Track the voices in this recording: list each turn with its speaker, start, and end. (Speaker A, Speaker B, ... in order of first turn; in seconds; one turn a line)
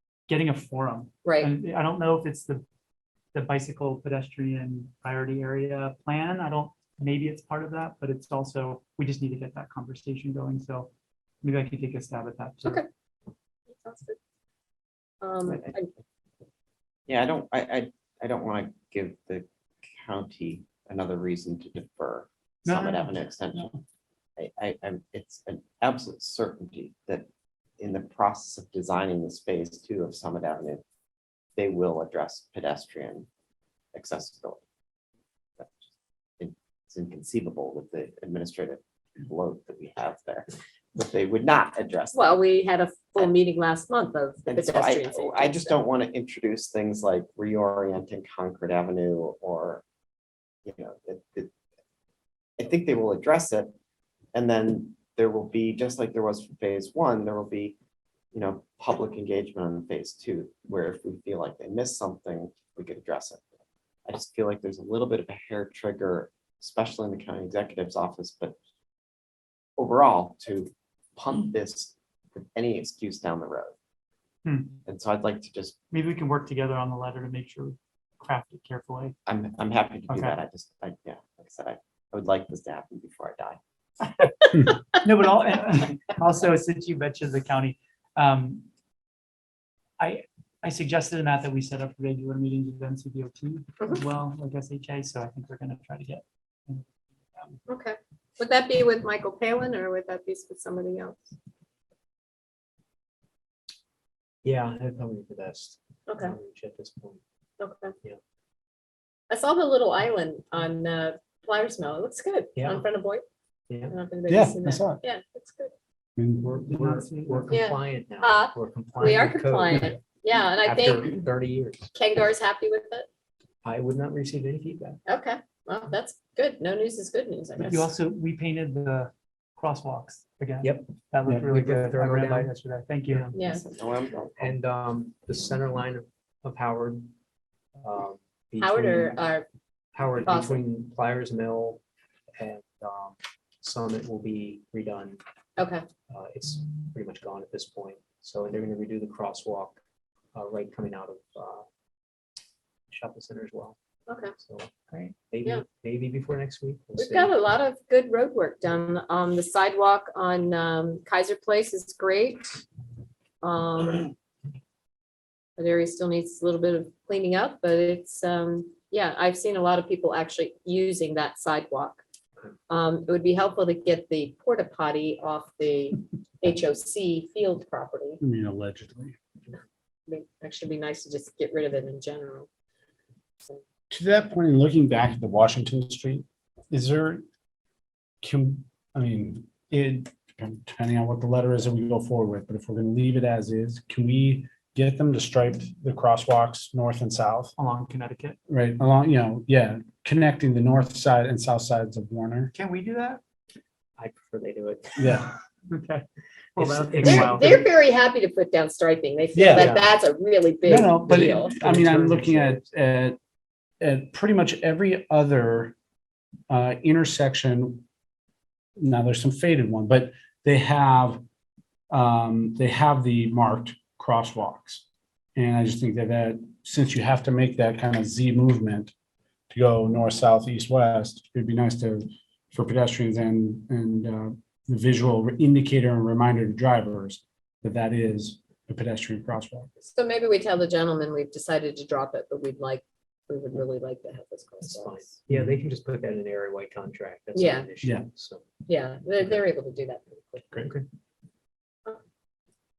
Speaker A: 0.3-2.6
Speaker B: 1.2-1.5
Speaker A: 3.3-10.9
Speaker A: 11.4-12.8
Speaker B: 13.7-14.2
Speaker B: 15.2-15.9
Speaker C: 15.5-15.8
Speaker C: 17.1-23.7
Speaker A: 22.6-23.8
Speaker C: 24.4-27.2
Speaker C: 27.8-30.8
Speaker C: 31.6-33.2
Speaker C: 33.9-34.6
Speaker C: 35.6-35.8
Speaker C: 36.4-42.4
Speaker B: 42.1-45.8
Speaker C: 44.5-49.8
Speaker C: 50.6-51.5
Speaker C: 52.6-53.7
Speaker C: 54.3-57.8
Speaker C: 58.3-63.5
Speaker C: 64.0-68.5
Speaker C: 69.8-73.7
Speaker A: 74.4-74.8
Speaker C: 74.8-75.8
Speaker A: 75.9-79.2
Speaker C: 79.3-83.6
Speaker A: 80.1-80.4
Speaker A: 85.0-88.6
Speaker A: 90.0-97.5
Speaker B: 97.7-101.3
Speaker D: 104.4-107.2
Speaker B: 106.1-106.3
Speaker B: 107.6-107.9
Speaker B: 109.3-113.2
Speaker D: 112.5-112.8
Speaker D: 113.7-113.9
Speaker B: 113.9-115.7
Speaker E: 114.3-115.0
Speaker E: 116.2-116.6
Speaker D: 116.4-121.9
Speaker A: 116.7-117.5
Speaker B: 117.5-121.1
Speaker B: 121.9-123.1
Speaker D: 123.6-125.0
Speaker B: 125.1-127.9
Speaker A: 127.6-133.3
Speaker D: 130.6-132.5
Speaker B: 133.3-133.6
Speaker C: 133.3-134.6
Speaker D: 134.4-137.1
Speaker D: 137.8-139.2
Speaker B: 138.6-139.4
Speaker D: 139.9-141.8
Speaker B: 140.2-140.6
Speaker D: 142.4-145.2
Speaker B: 145.6-145.8
Speaker D: 146.1-149.8
Speaker D: 150.3-151.6
Speaker D: 152.9-153.7
Speaker B: 154.1-154.3
Speaker D: 154.4-157.3
Speaker B: 157.0-162.6
Speaker B: 163.4-164.1
Speaker B: 165.6-172.0
Speaker B: 172.7-178.2
Speaker E: 178.2-179.2
Speaker B: 180.1-182.5
Speaker E: 183.9-187.2
Speaker E: 188.2-197.5
Speaker A: 197.6-198.4
Speaker E: 198.5-202.5
Speaker A: 202.5-203.2
Speaker D: 204.0-205.2
Speaker E: 205.0-205.3
Speaker A: 205.7-206.0
Speaker A: 206.6-207.6
Speaker D: 206.6-207.6
Speaker B: 207.0-211.6
Speaker E: 209.3-209.7
Speaker D: 209.5-209.9
Speaker E: 210.7-213.2
Speaker D: 211.3-212.6
Speaker E: 213.8-215.7
Speaker E: 216.5-217.8
Speaker E: 218.8-221.2
Speaker E: 221.9-224.8
Speaker E: 225.3-228.9
Speaker E: 229.5-239.7
Speaker B: 239.8-245.0
Speaker D: 244.6-248.4
Speaker B: 247.3-247.7
Speaker B: 248.7-250.5
Speaker D: 250.5-250.8